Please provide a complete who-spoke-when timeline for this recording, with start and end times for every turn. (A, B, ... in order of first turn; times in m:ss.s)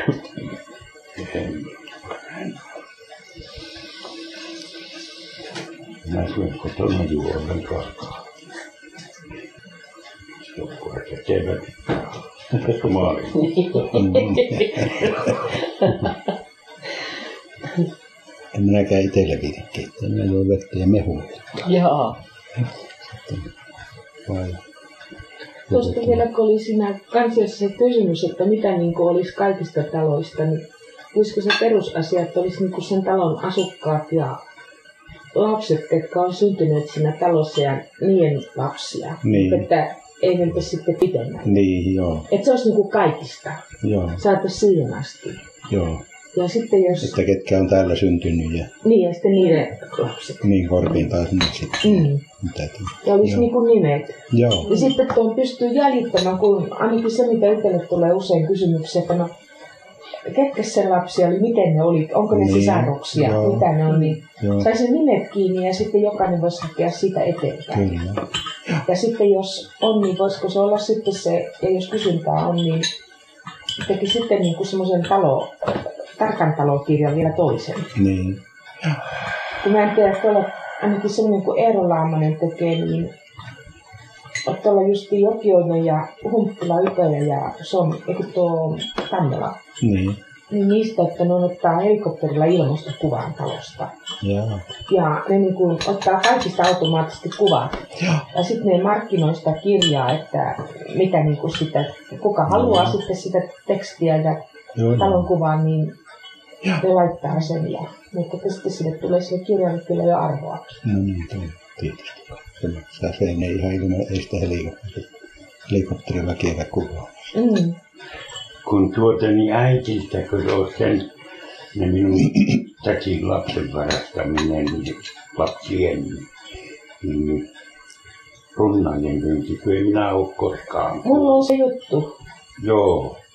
0:01.2-0:02.6 A
0:06.0-0:08.3 A
0:10.4-0:13.5 A
0:13.4-0:14.9 B
0:13.9-0:15.1 C
0:18.5-0:21.6 C
0:21.6-0:22.2 B
0:22.6-0:23.5 C
0:24.3-0:24.6 C
0:25.7-0:34.4 D
0:25.7-0:26.2 C
0:35.3-0:41.6 D
0:39.2-0:39.7 C
0:41.4-0:42.3 C
0:42.3-0:43.6 D
0:43.8-0:44.2 C
0:44.2-0:45.4 D
0:45.7-0:46.0 C
0:46.3-0:47.2 D
0:47.0-0:48.7 C
0:48.8-0:50.5 D
0:50.4-0:53.5 C
0:51.8-0:52.2 D
0:53.0-0:59.3 D
0:54.3-0:54.7 C
1:00.3-1:07.9 D
1:02.3-1:03.8 C
1:04.3-1:04.7 C
1:07.7-1:08.8 C
1:08.8-1:12.9 D
1:13.8-1:15.6 D
1:16.2-1:17.9 D
1:18.0-1:19.0 C
1:19.6-1:23.1 D
1:24.4-1:29.6 D
1:29.8-1:30.2 C
1:30.5-1:33.9 D
1:34.2-1:34.6 C
1:34.9-1:46.0 D
1:42.5-1:43.0 C
1:44.8-1:45.3 C
1:46.8-1:50.8 D
1:50.8-1:55.1 C
1:55.7-1:57.1 C
1:57.3-1:57.8 D
1:58.6-2:01.1 A
2:01.7-2:06.3 A
2:07.0-2:07.4 A
2:08.6-2:11.5 A
2:11.0-2:12.1 D
2:12.6-2:13.2 A